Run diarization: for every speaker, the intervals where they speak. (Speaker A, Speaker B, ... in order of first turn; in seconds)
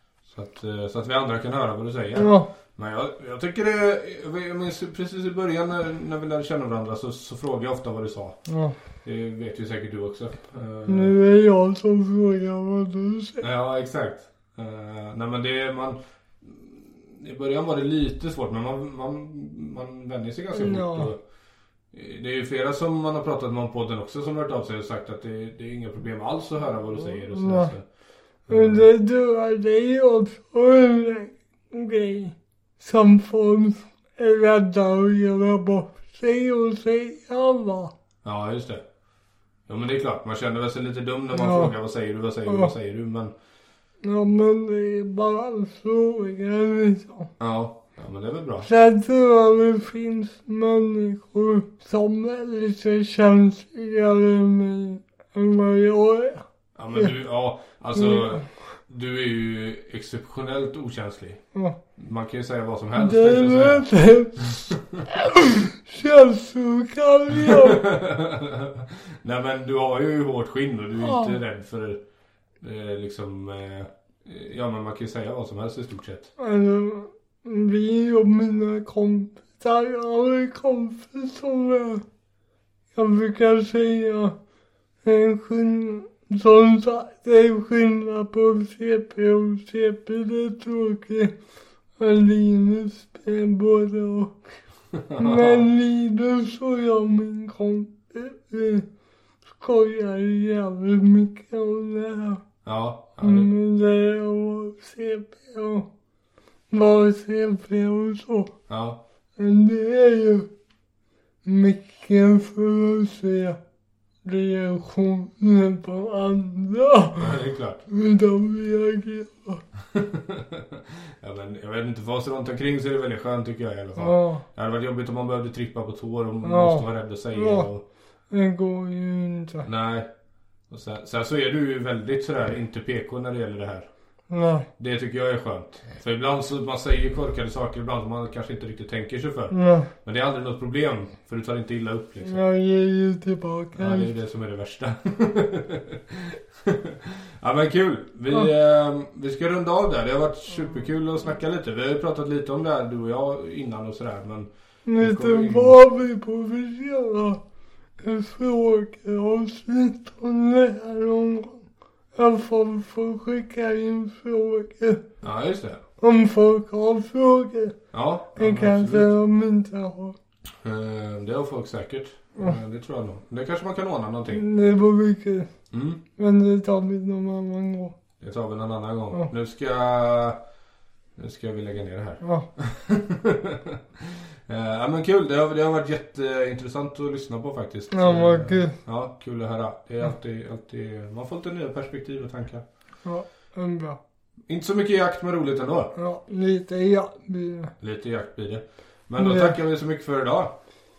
Speaker A: 0.3-8.4, 9.0-11.1, 13.4-21.2, 21.9-27.8, 28.5-28.9, 38.2-38.9, 39.7-43.3, 47.4-48.7, 56.8-61.4, 62.0-65.0, 67.3-72.0, 72.6-76.3, 94.9-95.7, 102.7-103.5, 108.7-109.0, 117.2-117.8, 119.9-127.8, 129.7-130.1, 130.7-133.9, 134.8-142.4, 143.8-155.8, 165.2-165.8, 167.9-169.1, 170.6-174.4, 175.7-176.0, 178.2-180.4, 181.2-192.7, 194.5-195.9, 197.8-200.6
Speaker B: 2.1-2.5, 8.5-8.8, 10.9-13.5, 20.5-21.1, 27.3-27.7, 28.5-37.9, 41.3-41.7, 42.5-42.7, 44.0-47.3, 48.6-57.1, 57.9-58.5, 63.0-67.8, 71.0-71.4, 76.4-82.0, 82.9-84.4, 85.0-91.3, 92.0-94.4, 95.2-98.9, 99.6-102.4, 103.2-105.9, 106.7-108.5, 109.4-110.5, 111.5-113.6, 114.2-119.6, 124.0-124.4, 126.4-127.7, 128.3-129.7, 134.3-134.7, 139.5-139.9, 142.2-144.1, 154.9-157.4, 158.0-165.0, 166.0-167.8, 168.4-170.2, 174.3-175.5, 176.2-177.9, 182.2-182.5, 187.9-188.8, 193.1-194.0, 195.9-197.7, 199.2-199.6